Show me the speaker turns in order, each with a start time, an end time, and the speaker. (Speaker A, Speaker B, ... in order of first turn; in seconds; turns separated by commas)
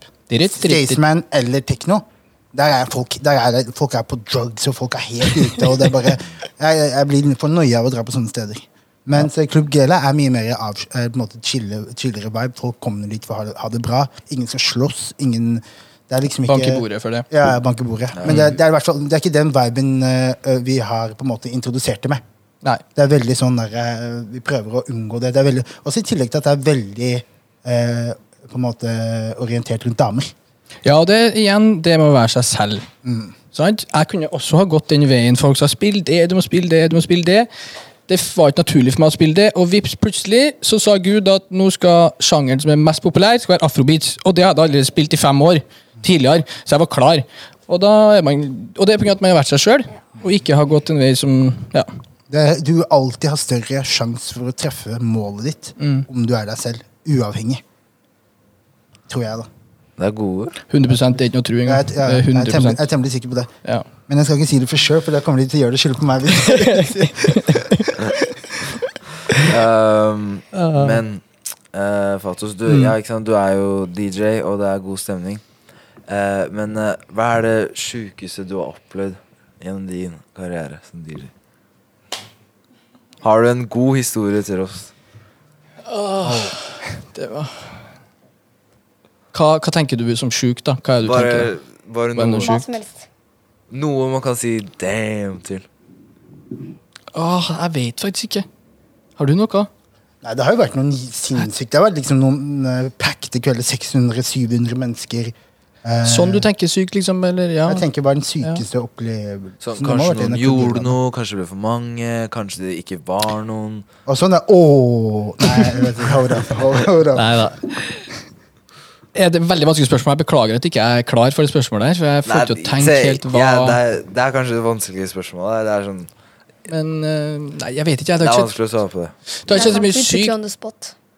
Speaker A: 0.3-1.0, Speaker B: 0.4-22.2, Speaker A: 16.5-17.3, Speaker C: 18.1-18.6, Speaker B: 22.9-30.3, Speaker A: 30.9-32.9, Speaker B: 33.0-33.3, Speaker A: 33.5-37.5, Speaker A: 38.1-51.9, Speaker B: 52.3-57.6, Speaker A: 55.8-56.1, Speaker B: 59.1-59.5, Speaker C: 60.0-60.6, Speaker A: 60.7-62.8, Speaker B: 61.6-63.5, Speaker B: 64.1-67.5, Speaker A: 66.4-67.9, Speaker C: 69.5-75.4, Speaker A: 70.5-71.0, Speaker C: 76.1-81.3, Speaker C: 83.2-84.9, Speaker A: 85.8-87.7, Speaker B: 86.2-86.6, Speaker A: 89.3-91.5, Speaker C: 91.0-92.5, Speaker A: 92.2-92.6, Speaker D: 92.4-93.0, Speaker C: 93.7-95.7, Speaker A: 97.1-98.5, Speaker A: 99.2-99.7, Speaker B: 100.2-106.5, Speaker A: 106.0-107.8, Speaker B: 107.7-111.0, Speaker C: 109.6-113.8, Speaker B: 114.1-117.5, Speaker A: 117.2-118.0, Speaker A: 119.2-123.8, Speaker C: 122.2-126.1, Speaker A: 126.7-128.5, Speaker C: 128.2-129.1, Speaker A: 129.5-130.3, Speaker D: 129.5-130.9